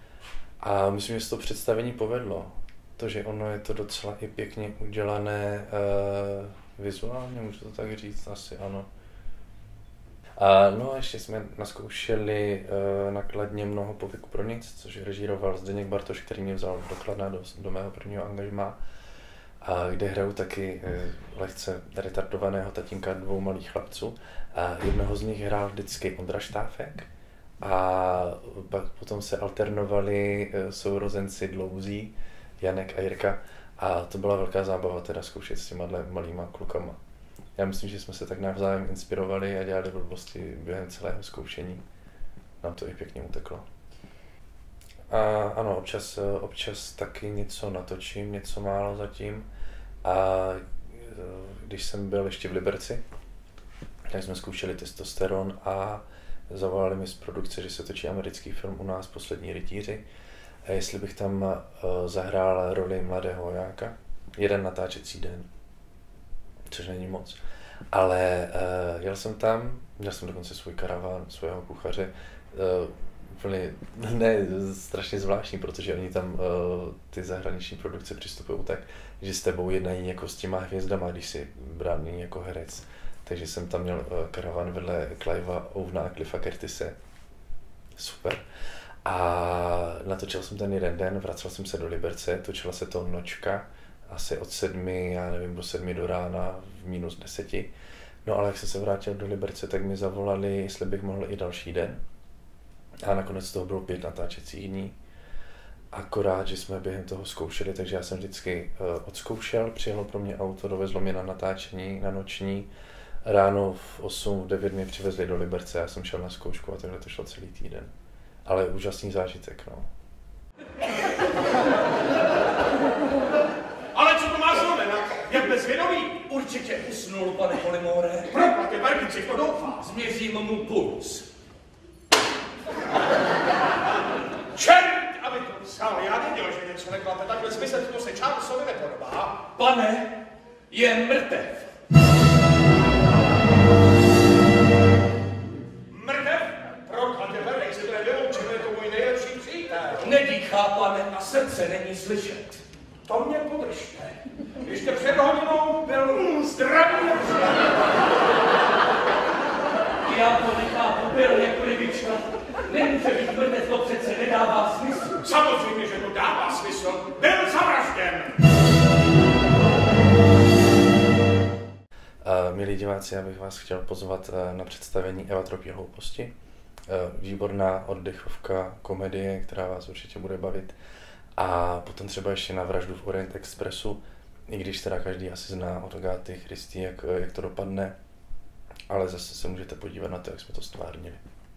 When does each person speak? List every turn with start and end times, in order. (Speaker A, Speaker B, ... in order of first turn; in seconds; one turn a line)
Speaker A: 0.6-8.9
Speaker A: 10.4-18.8
Speaker A: 19.6-27.1
Speaker A: 27.6-37.0
Speaker A: 37.6-41.8
Speaker A: 42.6-43.7
Speaker A: 45.1-49.5
Speaker A: 50.0-53.0
Speaker A: 54.1-60.0
Speaker A: 60.6-65.5
Speaker A: 66.7-67.4
Speaker A: 67.9-87.0
Speaker A: 88.0-88.4
Speaker A: 89.0-97.7
Speaker A: 98.2-102.0
Speaker A: 103.0-105.0
Speaker A: 105.9-112.7
Speaker A: 113.2-117.9
Speaker A: 118.5-119.9
Speaker B: 123.9-126.2
Speaker C: 126.2-128.3
Speaker B: 128.3-129.9
Speaker C: 129.8-131.3
Speaker B: 134.5-139.4
Speaker C: 139.5-140.1
Speaker C: 140.7-141.7
Speaker B: 145.9-150.1
Speaker C: 150.0-152.6
Speaker B: 153.1-157.7
Speaker C: 160.0-165.2
Speaker B: 165.2-168.4
Speaker A: 172.2-176.3
Speaker A: 176.9-180.8
Speaker A: 181.4-188.0
Speaker A: 188.9-191.2